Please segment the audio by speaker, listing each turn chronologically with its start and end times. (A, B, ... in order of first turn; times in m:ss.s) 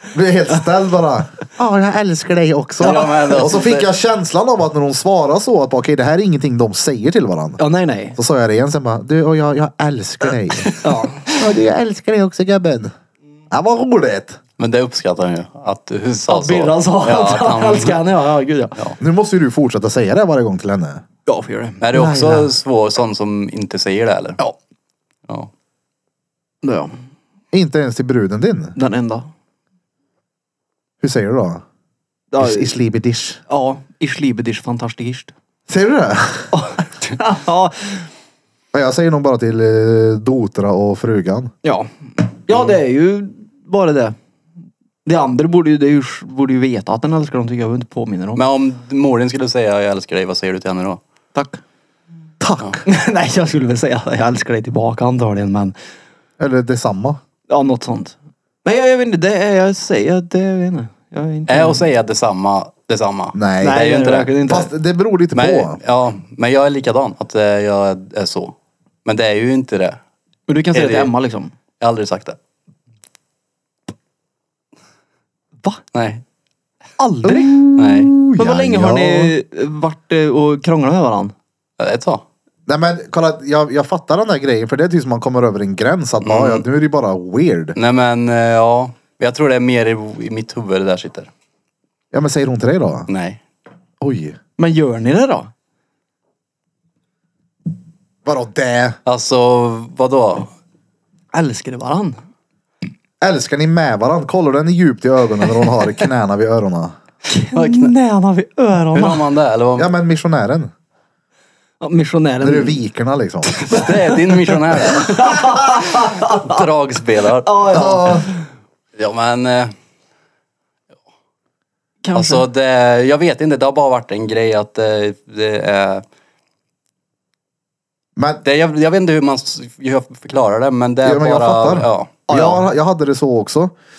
0:00.1-0:07.6 A
0:02.8-0:03.9 B
0:03.0-0:03.4 C
0:07.6-0:08.2 C
0:08.2-0:12.9 A
0:10.8-0:11.2 C
0:13.5-0:14.4 A
0:14.6-0:18.0 B
0:16.3-0:18.7 C
0:19.0-0:21.0 A
0:21.3-0:21.8 C
0:21.8-0:24.4 B
0:21.9-0:22.5 A
0:26.6-0:26.9 C
0:27.5-0:28.7 A
0:28.8-0:29.3 C
0:31.0-0:31.6 A
0:32.3-0:32.7 C
0:32.4-0:33.4 A
0:33.5-0:35.3 C
0:35.7-0:36.5 A
0:36.5-0:38.1 C
0:38.7-0:41.5 A
0:41.6-0:44.2 C
0:45.0-0:48.4 C
0:48.4-0:51.0 B
0:51.3-0:51.6 C
0:52.4-0:52.8 A
0:52.8-0:55.8 C
0:56.4-0:57.2 A
0:57.5-1:01.8 C
1:01.5-1:04.3 B
1:03.3-1:03.8 A
1:03.6-1:04.7 C
1:04.4-1:05.8 A
1:05.3-1:10.0 B
1:10.5-1:11.5 C
1:10.7-1:11.1 B
1:11.8-1:12.4 B
1:15.9-1:16.2 B
1:17.0-1:17.7 C
1:17.2-1:19.3 A
1:17.8-1:18.1 B
1:18.4-1:21.3 C
1:21.8-1:22.2 B
1:22.7-1:27.8 A
1:26.2-1:26.6 B
1:27.8-1:31.3 B
1:32.1-1:33.1 A
1:33.1-1:33.4 B
1:34.0-1:34.4 A
1:34.6-1:35.5 C
1:38.2-1:39.0 A
1:39.0-1:40.5 B
1:41.3-1:42.2 C
1:43.2-1:47.0 A
1:47.3-1:49.2 C
1:47.5-1:47.9 B
1:48.9-1:49.9 B
1:49.8-1:50.7 A
1:51.8-1:52.8 C
1:52.4-1:53.5 A
1:53.6-1:57.5 B
1:53.7-1:56.6 C
1:57.4-1:58.3 C
1:57.7-1:58.2 A
1:59.0-1:59.7 B
2:02.0-2:02.4 C
2:02.1-2:06.0 B
2:08.2-2:08.4 A
2:08.4-2:12.2 B
2:11.0-2:13.7 A
2:12.3-2:12.6 C